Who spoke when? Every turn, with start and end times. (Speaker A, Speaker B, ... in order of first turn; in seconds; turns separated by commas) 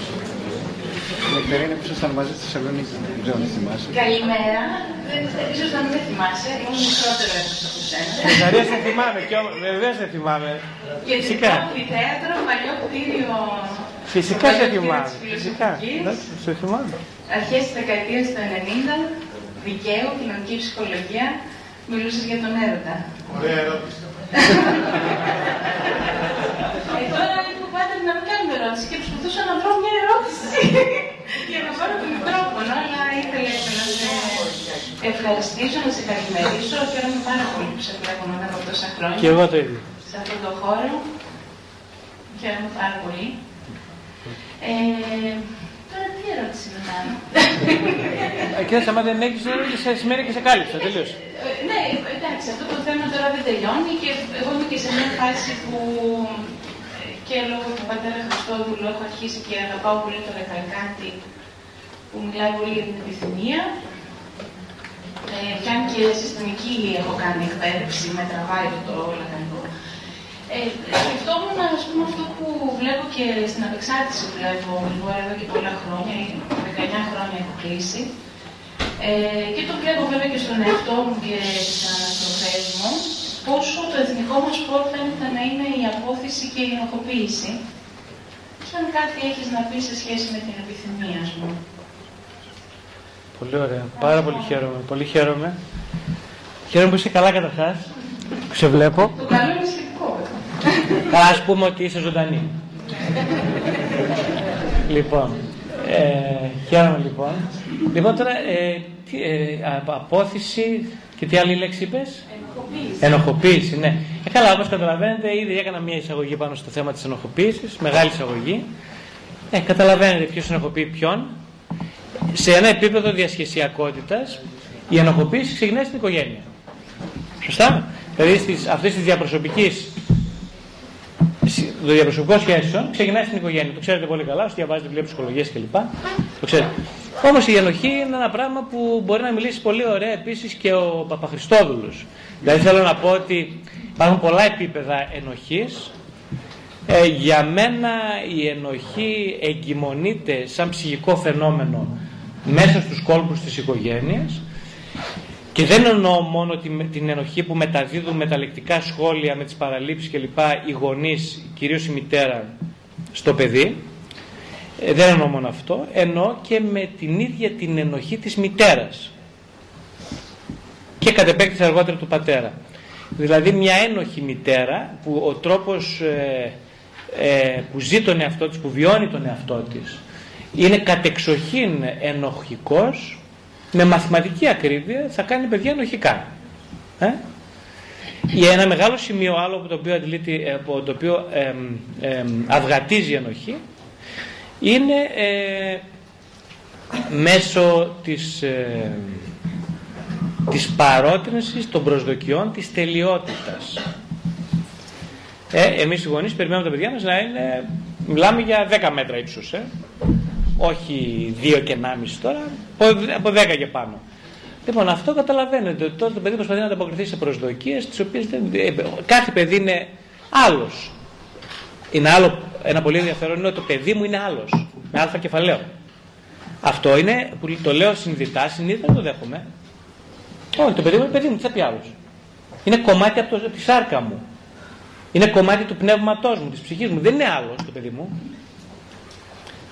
Speaker A: 1.2-4.0, Speaker B: 3.9-8.5, Speaker C: 8.2-10.6, Speaker B: 11.0-16.2, Speaker C: 11.2-11.7, Speaker C: 14.1-17.0, Speaker B: 17.3-23.2, Speaker B: 24.3-25.0, Speaker B: 26.9-39.5, Speaker C: 39.1-39.9, Speaker B: 40.0-41.0, Speaker B: 42.3-43.4, Speaker B: 44.6-48.5, Speaker C: 48.5-51.2, Speaker B: 50.8-61.2, Speaker B: 62.1-63.7, Speaker B: 65.3-69.7, Speaker B: 70.5-78.1, Speaker B: 79.0-87.6, Speaker B: 88.6-91.6, Speaker C: 93.4-95.6, Speaker B: 94.0-94.5, Speaker C: 96.7-97.9, Speaker C: 98.5-99.2, Speaker B: 99.1-100.3, Speaker C: 101.1-102.5, Speaker C: 104.9-112.2, Speaker B: 112.6-112.9, Speaker C: 113.0-118.7, Speaker C: 119.5-121.3, Speaker C: 122.3-124.4, Speaker C: 124.9-126.4, Speaker C: 127.4-129.9, Speaker C: 131.4-136.7, Speaker C: 137.2-145.9, Speaker C: 146.9-154.4, Speaker C: 155.5-162.5, Speaker C: 163.1-163.8, Speaker C: 164.8-169.1, Speaker C: 171.0-172.5, Speaker C: 173.2-176.6, Speaker C: 177.1-180.0, Speaker C: 180.5-183.2, Speaker C: 183.7-186.3, Speaker C: 188.3-193.6, Speaker C: 194.6-195.8, Speaker C: 197.1-199.3, Speaker C: 200.5-203.8, Speaker C: 205.5-209.7, Speaker C: 210.6-214.0, Speaker C: 214.6-220.9, Speaker C: 221.9-225.7, Speaker C: 226.6-229.4, Speaker C: 230.6-231.9, Speaker C: 232.6-234.2, Speaker C: 235.1-238.1